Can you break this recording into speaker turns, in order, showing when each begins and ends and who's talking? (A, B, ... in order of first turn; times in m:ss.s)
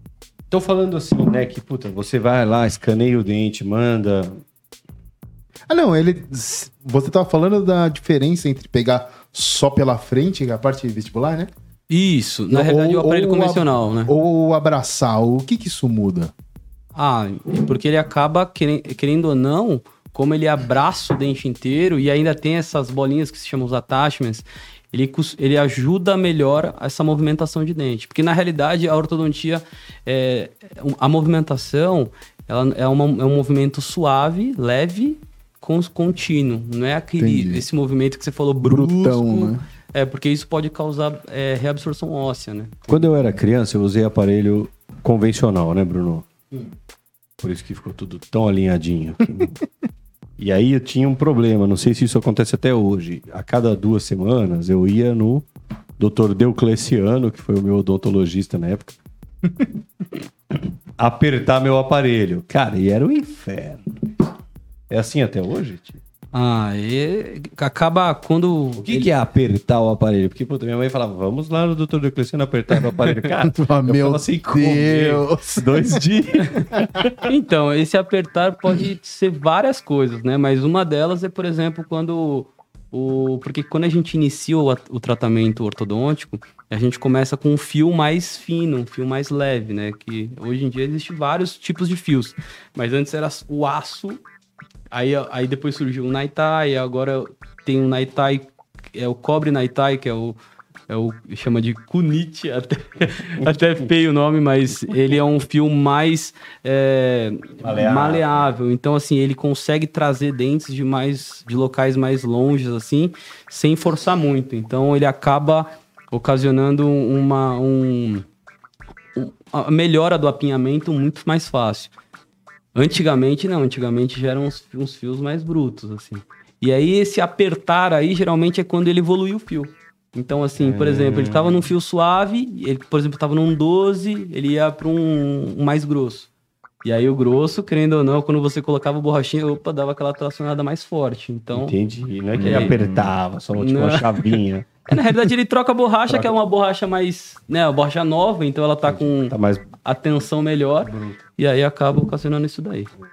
0:00.5-0:04.4 A
0:05.7-0:11.5 B
0:11.9-0:14.1 C
0:12.5-0:16.3 B
0:16.9-0:42.9 C
0:37.2-0:37.6 B
0:38.6-0:39.6 B
0:42.9-0:46.2 A
0:42.9-0:43.2 B
0:47.4-0:49.6 A
0:50.4-0:55.5 A
0:56.0-0:59.0 A
1:01.0-1:04.0 A
1:04.9-1:06.0 A
1:06.3-1:09.1 C
1:08.8-1:17.1 A
1:13.4-1:16.0 B
1:16.6-1:17.0 B
1:17.2-1:34.2 C
1:34.9-1:40.4 C
1:40.9-1:58.2 C
1:47.6-1:48.5 A
1:59.2-2:01.9 C
2:02.8-2:16.3 C
2:10.6-2:11.7 A
2:16.8-2:21.8 C
2:21.5-2:24.8 A
2:22.4-2:22.8 C
2:22.4-2:22.8 B
2:23.6-2:32.9 C
2:28.9-2:29.6 A
2:30.9-2:31.2 A